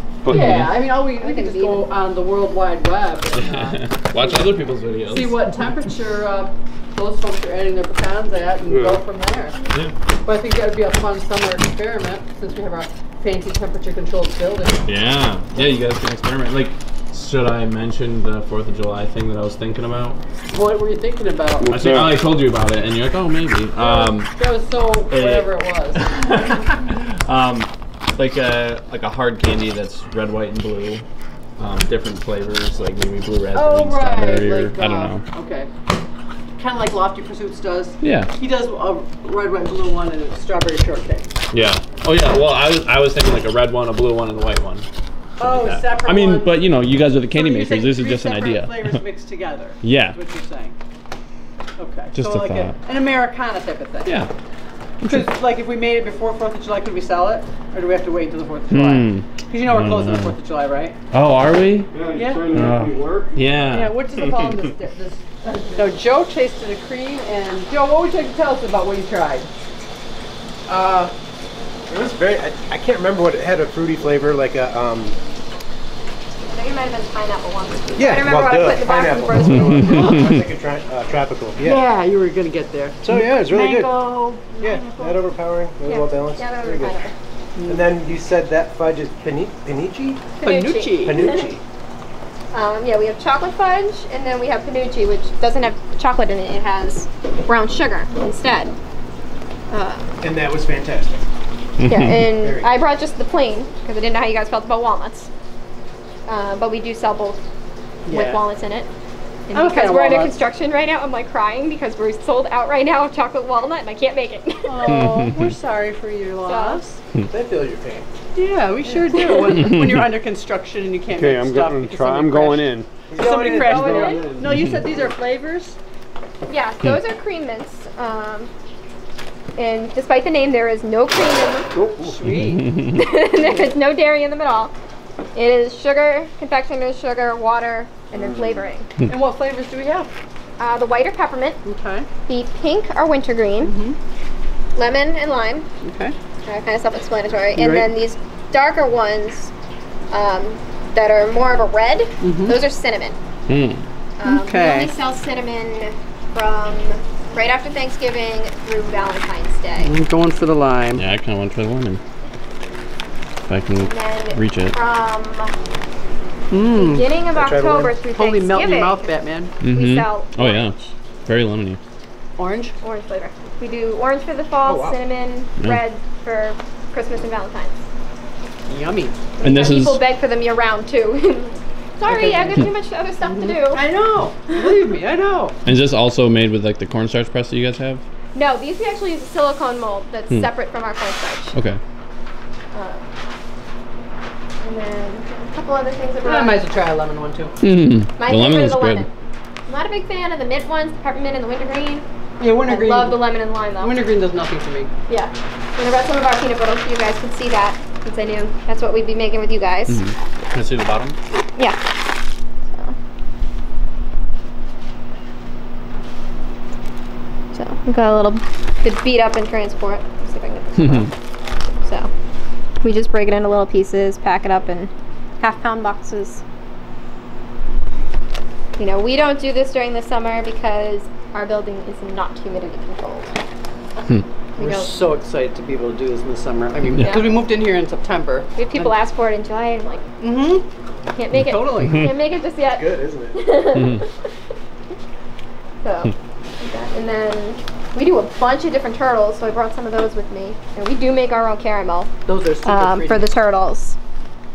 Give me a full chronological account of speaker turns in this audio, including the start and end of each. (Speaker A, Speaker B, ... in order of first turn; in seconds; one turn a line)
Speaker A: 0.2-0.6
Speaker B: 0.3-9.6
Speaker C: 0.3-0.7
Speaker D: 1.0-1.8
Speaker C: 3.4-5.4
Speaker A: 8.7-9.0
Speaker B: 10.2-14.9
Speaker C: 14.8-20.2
Speaker B: 20.5-22.0
Speaker A: 21.6-22.2
Speaker C: 21.7-24.3
Speaker B: 23.8-26.2
Speaker C: 25.1-31.0
Speaker C: 31.6-35.2
Speaker B: 33.5-35.7
Speaker B: 36.6-41.3
Speaker C: 38.0-38.3
Speaker C: 41.5-44.9
Speaker B: 45.4-46.6
Speaker C: 45.4-49.0
Speaker B: 47.3-50.7
Speaker C: 49.8-50.2
Speaker B: 51.8-54.2
Speaker C: 52.1-52.7
Speaker B: 55.0-61.0
Speaker C: 58.7-60.4
Speaker C: 61.1-61.9
Speaker A: 61.9-63.4
Speaker B: 62.1-62.5
Speaker C: 62.5-64.4
Speaker B: 63.7-69.5
Speaker B: 70.7-71.1
Speaker E: 71.9-75.2
Speaker D: 76.4-80.4
Speaker E: 78.0-81.8
Speaker B: 81.6-85.0
Speaker E: 83.0-87.0
Speaker D: 84.5-85.0
Speaker D: 85.8-87.1
Speaker B: 87.5-87.9
Speaker E: 87.6-90.3
Speaker B: 90.4-91.3
Speaker D: 90.4-91.4
Speaker E: 91.0-91.6
Speaker D: 92.5-98.8
Speaker D: 99.7-100.2
Speaker E: 100.2-101.3
Speaker C: 101.8-102.2
Speaker D: 101.8-105.3
Speaker E: 102.1-102.7
Speaker D: 106.2-107.5
Speaker B: 108.1-108.4
Speaker D: 108.1-108.9
Speaker D: 109.5-115.3
Speaker B: 109.5-110.3
Speaker B: 114.6-117.0
Speaker D: 116.4-116.8
Speaker E: 117.3-118.1
Speaker B: 118.3-125.8
Speaker D: 119.1-119.6
Speaker A: 121.1-123.0
Speaker E: 123.1-124.5
Speaker D: 123.5-124.3
Speaker D: 126.5-128.5
Speaker D: 129.6-131.7
Speaker B: 131.9-132.8
Speaker D: 132.8-134.7
Speaker B: 133.4-133.6
Speaker D: 135.3-138.9
Speaker B: 139.0-140.1
Speaker D: 140.6-141.6
Speaker B: 141.6-142.1
Speaker D: 142.3-143.8
Speaker B: 143.6-144.0
Speaker D: 144.7-145.7
Speaker B: 145.8-146.1
Speaker D: 146.4-149.5
Speaker B: 147.6-147.9
Speaker D: 150.1-153.2
Speaker B: 152.2-152.6
Speaker C: 153.5-153.8
Speaker D: 154.2-159.9
Speaker B: 154.2-154.9
Speaker B: 159.8-161.0
Speaker C: 160.9-162.0
Speaker C: 163.5-164.8
Speaker D: 163.8-165.5
Speaker B: 166.5-167.1
Speaker D: 166.7-169.1
Speaker E: 167.3-168.0
Speaker B: 168.1-169.5
Speaker C: 169.6-171.8
Speaker D: 169.6-170.9
Speaker B: 172.4-172.7
Speaker D: 172.8-177.8
Speaker B: 174.6-175.0
Speaker B: 178.7-179.2
Speaker D: 179.4-183.9
Speaker C: 179.4-180.0
Speaker B: 182.1-182.7
Speaker B: 183.2-185.6
Speaker C: 185.6-188.0
Speaker D: 188.3-191.6
Speaker D: 192.7-193.0
Speaker D: 194.6-196.6
Speaker B: 196.2-197.5
Speaker C: 197.6-199.1
Speaker D: 198.2-199.1
Speaker D: 199.7-202.0
Speaker B: 202.4-204.9
Speaker D: 202.7-204.0
Speaker D: 205.1-210.0
Speaker C: 209.9-211.2
Speaker D: 217.5-221.1
Speaker C: 220.8-221.1
Speaker D: 221.8-222.1
Speaker D: 222.8-226.4
Speaker D: 228.8-233.3
Speaker D: 234.6-234.9
Speaker B: 234.6-238.9
Speaker D: 237.0-237.4
Speaker D: 238.6-240.1
Speaker B: 240.2-240.7
Speaker D: 241.1-244.1
Speaker B: 241.3-242.1
Speaker E: 242.6-243.6
Speaker D: 245.8-252.1
Speaker B: 252.3-253.3
Speaker D: 252.6-254.0